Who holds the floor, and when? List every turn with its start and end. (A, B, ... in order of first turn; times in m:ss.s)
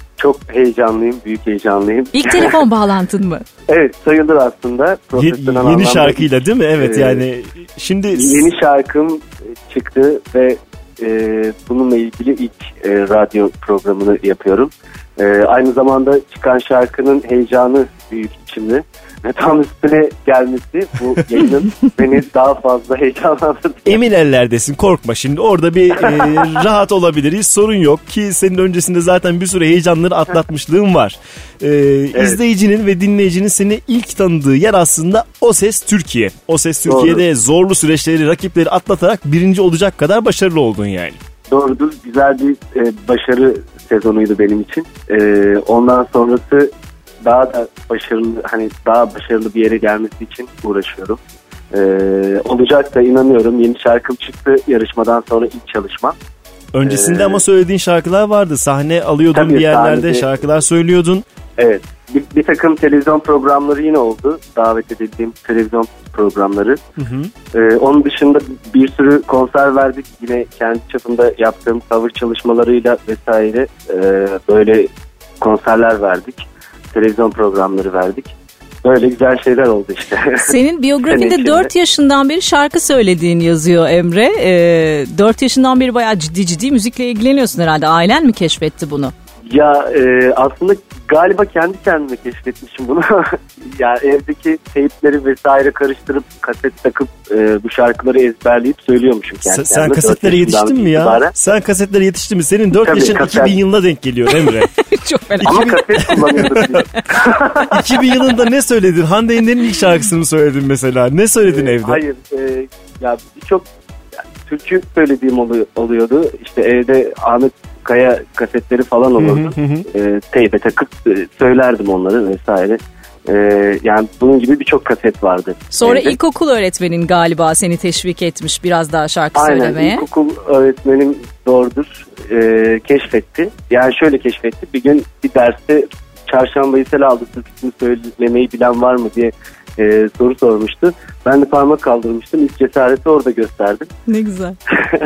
0:00.2-0:02.6 A
0:02.1-0:03.4 B
0:03.7-0:07.2 A
0:05.2-0:08.5 C
0:08.2-0:24.0 A
0:23.8-0:41.2 C
0:26.0-0:26.4 A
0:36.8-0:37.2 A
0:41.5-0:46.7 A
0:47.2-0:51.2 A
0:51.7-0:56.2 A
0:56.7-1:01.2 C
0:56.8-0:57.4 A
0:59.3-1:00.3 A
1:01.6-1:06.8 A
1:07.0-1:07.3 C
1:07.5-1:14.9 A
1:15.4-1:16.4 A
1:16.9-1:20.5 A
1:20.4-1:29.1 B
1:21.1-1:21.7 A
1:29.5-1:41.3 A
1:39.4-1:44.7 C
1:42.8-1:43.6 A
1:44.9-1:46.6 B
1:45.4-1:46.7 C
1:45.4-1:47.9 A
1:47.7-1:52.0 C
1:51.4-1:53.6 A
1:54.4-2:06.2 A
1:59.2-1:59.9 C
2:05.7-2:10.0 B
2:09.3-2:23.9 A
2:24.1-2:24.6 B